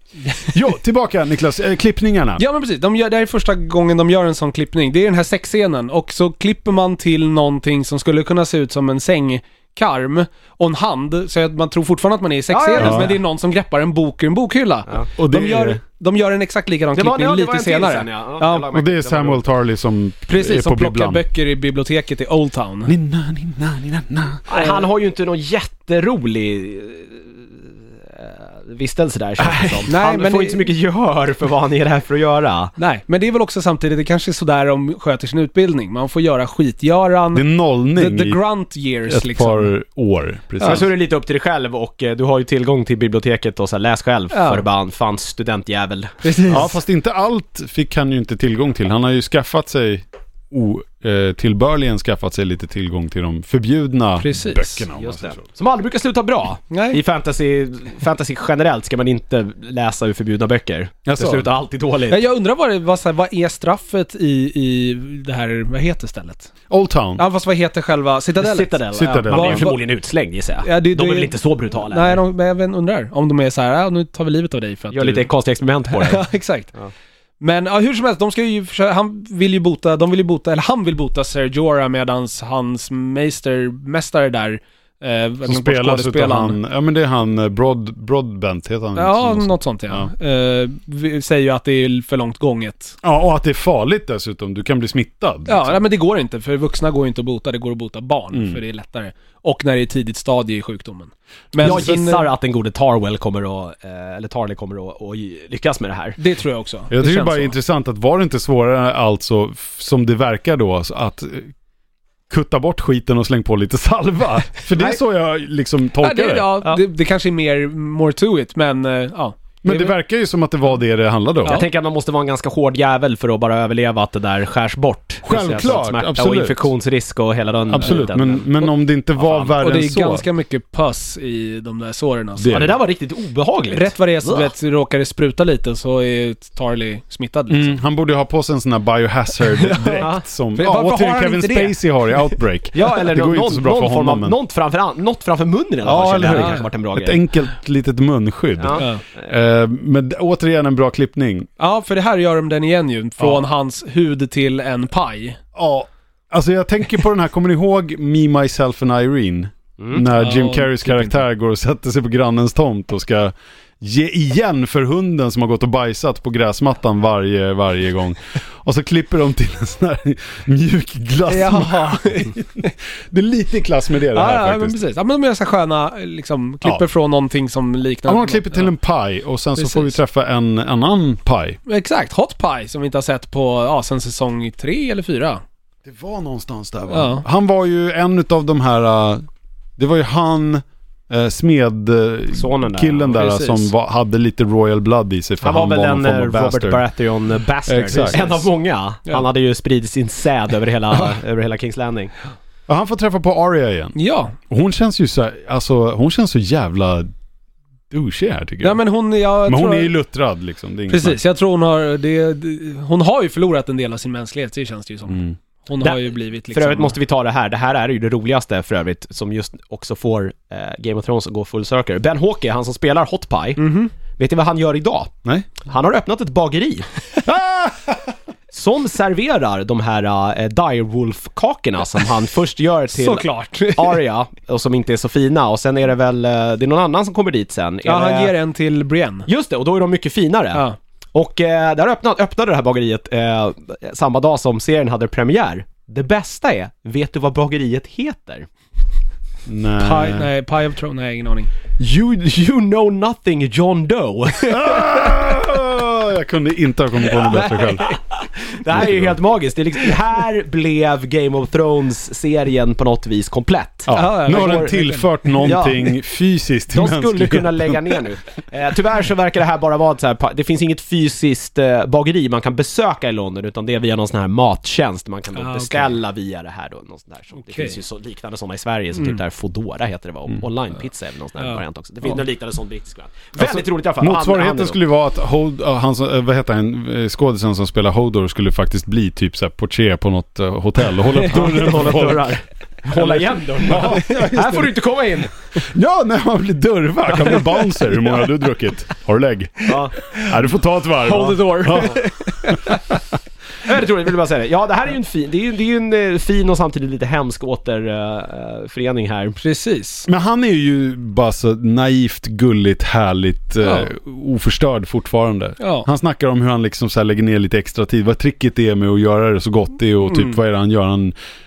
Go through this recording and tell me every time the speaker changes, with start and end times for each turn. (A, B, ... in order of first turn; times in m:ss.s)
0:00.2-0:00.5 A
0:00.4-0:02.4 B
0:02.4-0:18.7 A
0:12.5-0:13.1 C
0:12.8-0:13.1 B
0:15.2-0:15.8 B
0:16.9-0:19.4 C
0:18.7-0:21.2 B
0:20.3-0:22.9 A
0:22.9-0:24.4 B
0:24.5-0:32.7 C
0:24.5-0:24.8 A
0:29.4-0:29.8 B
0:29.9-0:30.6 A
0:32.8-0:39.7 A
0:37.3-0:38.4 B
0:39.1-0:40.9 B
0:40.6-0:40.8 A
0:40.6-0:46.5 C
0:44.3-0:44.6 A
0:46.2-0:46.8 A
0:46.5-0:55.4 B
0:54.2-0:54.8 A
0:54.9-1:02.2 C
0:56.7-0:57.0 A
1:01.0-1:01.5 B
1:02.1-1:06.5 A
1:06.7-1:07.2 B
1:07.2-1:09.8 A
1:08.4-1:12.2 C
1:08.9-1:09.7 B
1:10.6-1:15.3 A
1:14.9-1:16.3 C
1:15.9-1:16.7 A
1:17.4-1:26.6 A
1:25.4-1:30.1 B
1:29.0-1:33.0 A
1:33.0-1:35.8 B
1:35.4-1:42.3 A
1:38.3-1:38.6 B
1:41.6-1:46.2 C
1:46.2-1:47.5 A
1:46.9-1:51.5 B
1:52.3-1:56.5 B
1:56.0-2:00.0 A
1:59.6-2:01.6 B
2:01.4-2:08.5 C
2:05.2-2:06.7 B
2:07.7-2:10.2 B
2:09.2-2:09.5 C
2:09.6-2:12.7 A
2:12.4-2:12.8 B
2:12.5-2:14.5 C
2:13.7-2:17.8 A
2:17.5-2:24.3 B
2:19.6-2:22.3 A
2:22.7-2:27.2 C
2:25.8-2:31.5 B
2:26.2-2:26.6 A
2:28.6-2:29.3 C
2:28.8-2:29.0 A
2:31.6-2:35.4 A
2:35.5-2:54.8 B
2:40.1-2:41.2 A
2:51.3-2:52.7 A
2:54.1-2:58.7 A
2:58.1-3:01.6 B
2:59.6-2:59.9 A
3:01.7-3:05.4 A
3:05.8-3:09.2 B
3:06.9-3:07.2 A
3:09.8-3:16.8 B
3:12.3-3:13.1 C
3:13.1-3:13.7 A
3:15.4-3:22.1 C
3:17.7-3:18.4 B
3:22.7-3:24.0 B
3:23.9-3:24.4 A
3:24.5-3:27.1 B
3:27.9-3:28.8 B
3:28.6-3:29.9 A
3:29.4-3:31.2 B
3:30.9-3:37.0 A
3:35.1-3:35.4 B
3:35.8-3:46.9 C
3:43.6-3:43.9 A
3:47.2-3:48.1 B
3:48.5-3:58.3 C
3:52.9-3:54.0 A
3:57.8-3:59.3 A
3:59.3-4:08.5 C
4:09.4-4:10.3 B
4:09.8-4:11.5 A
4:11.8-4:14.9 C
4:14.5-4:17.8 B
4:17.3-4:18.0 A
4:17.8-4:24.8 C
4:18.7-4:19.1 B
4:23.9-4:28.0 B
4:23.9-4:25.5 A
4:25.4-4:25.9 C
4:26.7-4:44.8 C
4:35.3-4:36.0 A
4:37.4-4:37.8 A
4:43.4-4:52.3 B
4:51.2-4:55.3 C
4:52.9-4:54.8 B
4:55.5-5:02.8 B
4:59.6-5:00.2 C
5:01.0-5:02.0 C
5:01.7-5:02.8 A
5:03.6-5:09.4 C
5:09.4-5:10.1 A
5:10.1-5:21.1 B
5:13.6-5:13.9 A
5:15.6-5:15.9 A
5:20.0-5:20.4 A